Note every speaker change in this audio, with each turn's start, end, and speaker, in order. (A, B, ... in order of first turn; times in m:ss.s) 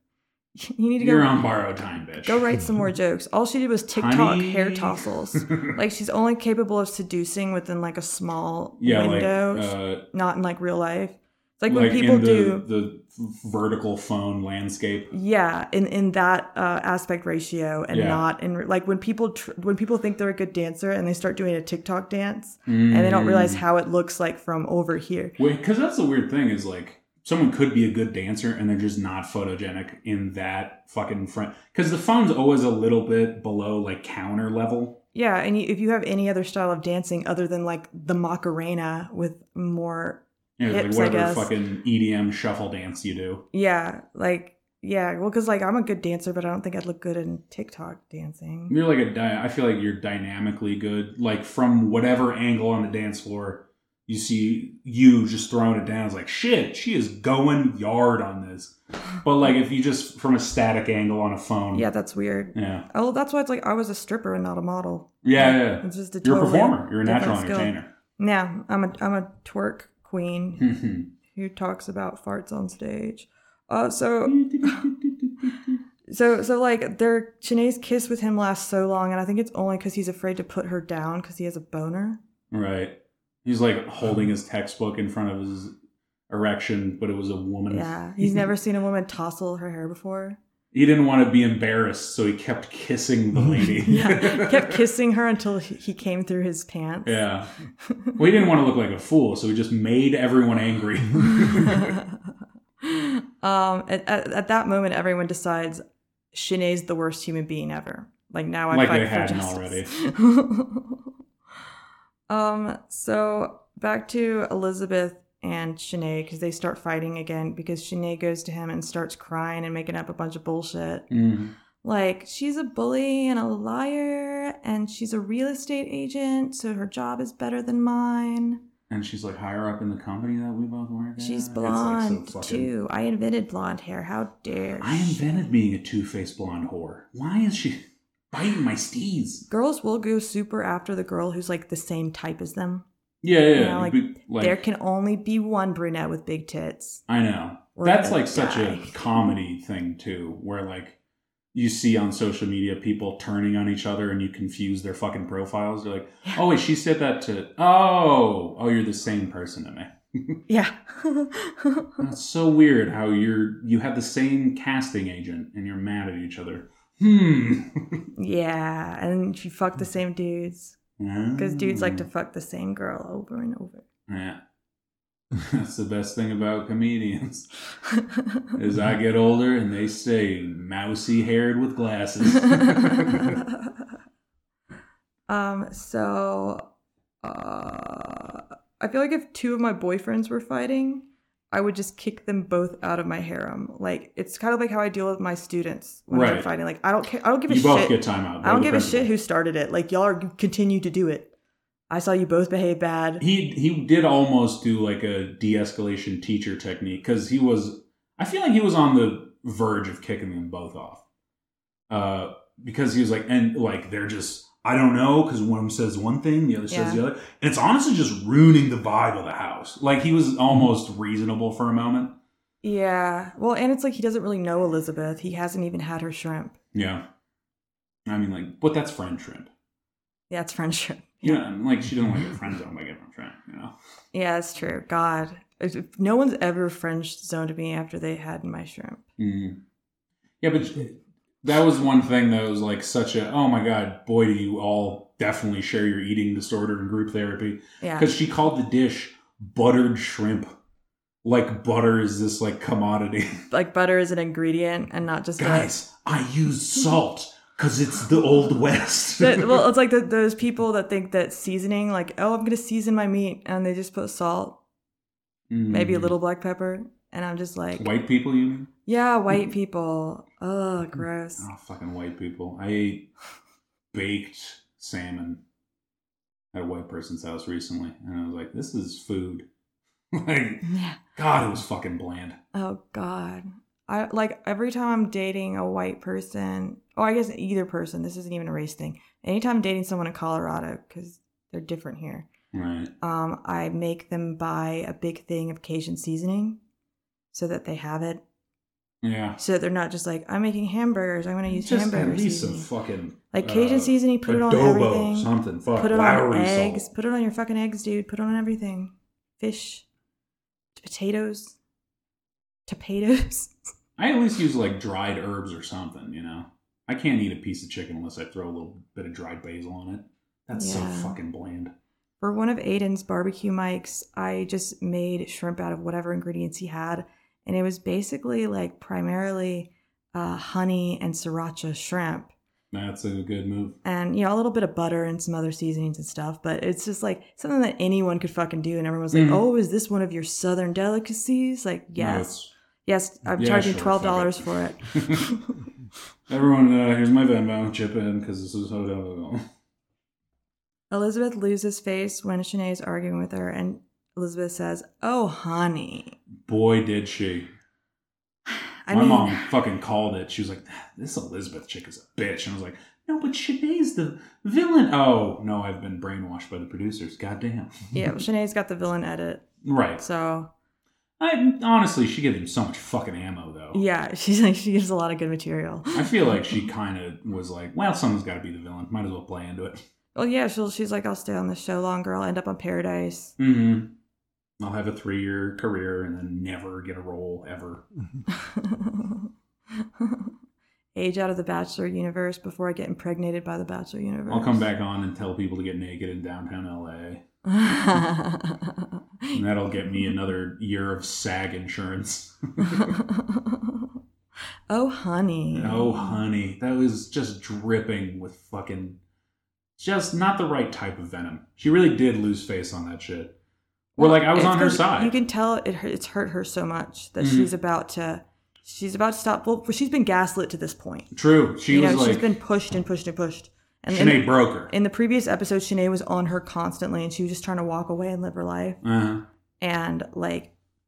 0:00.6-0:01.3 A
0:01.0-0:02.4 B
0:02.2-0:12.6 A
0:03.9-0:05.7 B
0:08.8-0:10.0 B
0:11.7-0:15.1 B
0:15.1-0:25.4 A
0:17.9-0:18.2 B
0:22.7-0:23.6 B
0:25.4-0:35.0 B
0:35.1-0:41.5 A
0:40.6-0:43.4 B
0:43.5-0:48.7 A
0:48.7-1:01.9 B
1:01.7-1:10.7 A
1:02.5-1:02.9 B
1:05.2-1:07.9 B
1:10.6-1:11.1 B
1:11.3-1:14.8 A
1:14.2-1:15.8 B
1:16.1-1:22.2 A
1:22.5-1:25.7 B
1:26.3-1:28.5 B
1:27.7-1:30.4 A
1:30.7-1:34.8 B
1:33.8-1:37.2 A
1:37.0-1:37.5 B
1:37.8-1:38.1 A
1:38.2-1:41.9 B
1:41.4-1:42.0 A
1:42.8-1:51.0 A
1:48.7-1:49.9 B
1:52.3-2:01.1 A
2:01.1-2:01.5 B
2:01.8-2:08.6 A
2:08.9-2:12.7 B
2:11.2-2:15.2 A
2:14.8-2:19.4 B
2:19.5-2:22.8 A
2:23.2-2:24.6 B
2:23.5-2:27.0 A
2:27.1-2:31.0 B
2:27.8-2:29.2 A
2:31.5-2:40.4 B
2:40.5-2:42.0 A
2:42.0-2:48.0 B
2:48.2-2:50.8 A
2:51.0-2:52.0 B
2:51.4-2:53.8 A
2:54.1-2:54.4 B
2:55.3-2:57.5 B
2:58.5-3:03.4 B
3:05.3-3:06.6 A
3:07.2-3:21.3 A
3:16.1-3:16.5 B
3:17.5-3:19.1 B
3:21.9-3:23.2 A
3:23.2-3:31.0 B
3:31.9-3:42.1 B
3:36.7-3:37.0 A
3:42.6-3:46.6 A
3:46.7-3:47.0 B
3:48.0-3:49.5 B
3:50.3-3:51.4 A
3:51.2-3:53.7 B
3:54.1-3:59.0 A
3:59.2-3:59.6 B
4:00.4-4:10.5 B
4:07.8-4:08.1 A
4:11.2-4:13.4 B
4:13.5-4:15.7 A
4:15.4-4:19.7 B
4:19.2-4:24.6 A
4:25.5-4:26.1 B
4:25.7-4:27.9 A
4:27.8-4:28.7 B
4:28.8-4:31.4 A
4:31.4-4:33.1 B
4:33.9-4:35.4 B
4:36.5-4:39.4 B
4:40.1-4:42.4 B
4:40.6-4:41.0 A
4:42.5-4:52.3 A
4:52.5-4:52.9 B
4:53.0-4:56.6 A
4:57.3-4:58.2 A
4:59.0-4:59.4 B
4:59.4-5:02.7 A
5:01.5-5:06.9 B
5:03.3-5:09.8 A
5:10.8-5:11.6 A
5:12.7-5:13.5 A
5:14.0-5:21.7 B
5:20.5-5:21.2 A
5:22.2-5:32.3 A
5:32.7-5:33.8 B
5:33.8-5:42.3 A
5:39.1-5:39.4 B
5:42.0-5:42.5 B
5:42.8-5:45.6 A
5:43.4-5:45.3 B
5:46.3-5:49.4 B
5:50.9-5:56.2 A
5:56.4-5:57.5 B
5:58.8-5:59.5 A
5:58.9-6:07.9 B
6:07.9-6:09.4 A
6:09.6-6:10.0 B
6:10.0-6:10.5 A
6:11.2-6:13.8 B
6:13.7-6:16.6 A
6:15.9-6:19.8 B
6:20.1-6:23.3 A
6:23.4-6:23.9 B
6:24.6-6:27.8 B
6:28.3-6:29.3 A
6:29.8-6:30.3 A
6:30.9-6:34.6 A
6:34.3-6:37.2 B
6:37.4-6:40.1 A
6:39.3-6:43.0 B
6:42.6-6:43.8 A
6:44.7-6:46.2 A
6:45.5-6:49.0 B
6:49.8-6:53.4 B
6:54.0-6:55.1 B
6:54.0-7:01.1 A
6:57.2-6:57.5 B
7:01.1-7:02.3 B
7:01.7-7:08.8 A
7:03.9-7:04.7 B
7:08.8-7:09.2 B
7:09.6-7:10.5 A